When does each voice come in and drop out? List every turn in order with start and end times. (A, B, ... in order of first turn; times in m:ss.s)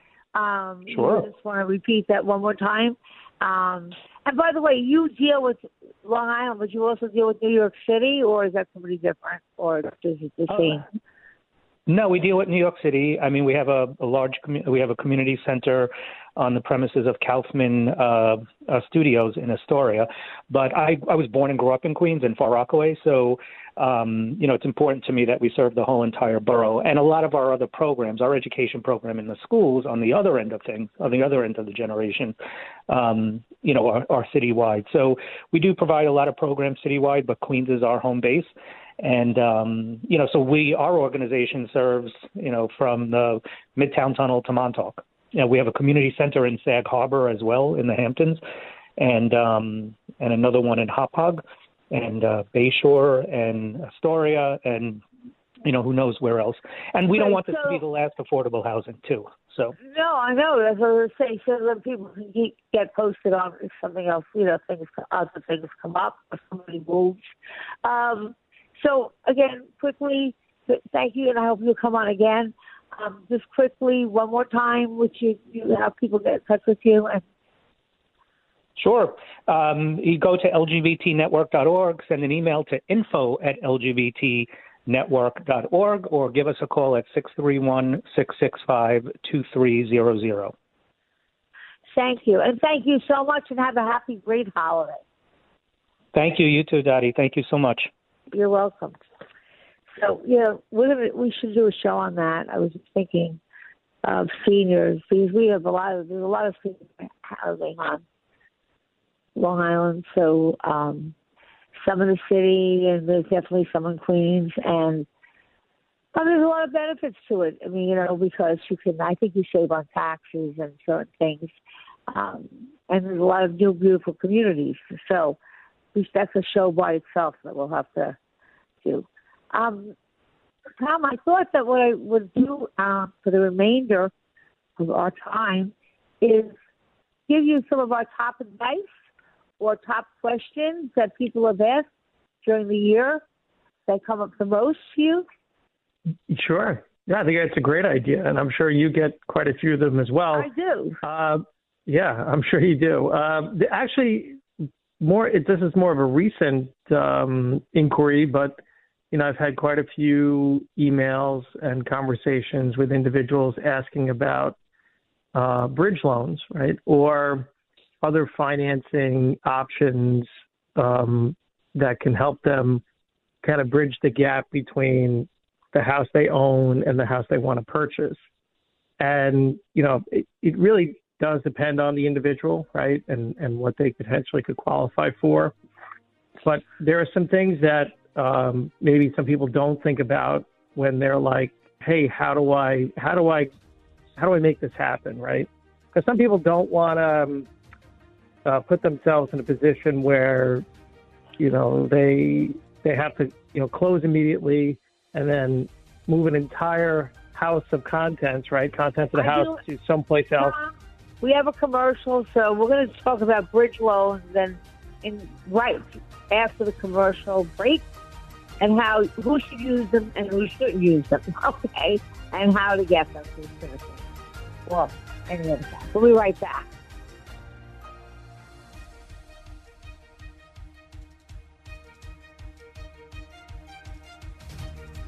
0:00.4-0:10.8 A
0:00.9-0:01.3 B
0:10.5-0:10.8 B
0:11.9-0:32.4 B
0:32.9-0:48.4 B
0:49.0-0:55.0 B
0:55.6-0:59.8 B
0:57.1-0:57.8 A
0:59.8-1:07.2 A
1:07.8-1:17.2 A
1:18.8-1:30.6 B
1:32.0-1:35.0 A
1:36.1-1:37.9 B
1:38.3-1:39.0 A
1:40.0-1:43.4 A
1:44.0-1:48.0 A
1:49.4-1:51.1 A
1:51.8-1:55.1 A
1:56.1-2:01.5 A
2:02.1-2:05.4 A
2:06.0-2:08.2 A
2:08.8-2:09.9 A
2:10.8-2:14.1 A
2:14.8-2:16.5 A
2:17.3-2:18.9 A
2:19.6-2:21.9 A
2:22.4-2:23.2 A
2:23.9-2:25.3 A
2:26.3-2:30.5 C
2:30.3-2:31.0 A
2:31.0-2:34.4 C
2:35.0-2:38.6 C
2:39.1-2:44.6 C
2:45.3-2:47.5 C
2:48.0-2:52.8 C
2:53.4-2:58.2 C
2:59.0-3:05.5 C
3:06.4-3:13.5 C
3:14.2-3:17.5 C
3:18.4-3:20.6 C
3:21.4-3:30.6 C
3:29.1-3:29.6 A
3:30.4-3:37.8 A
3:38.6-3:44.0 A
3:44.7-3:46.7 A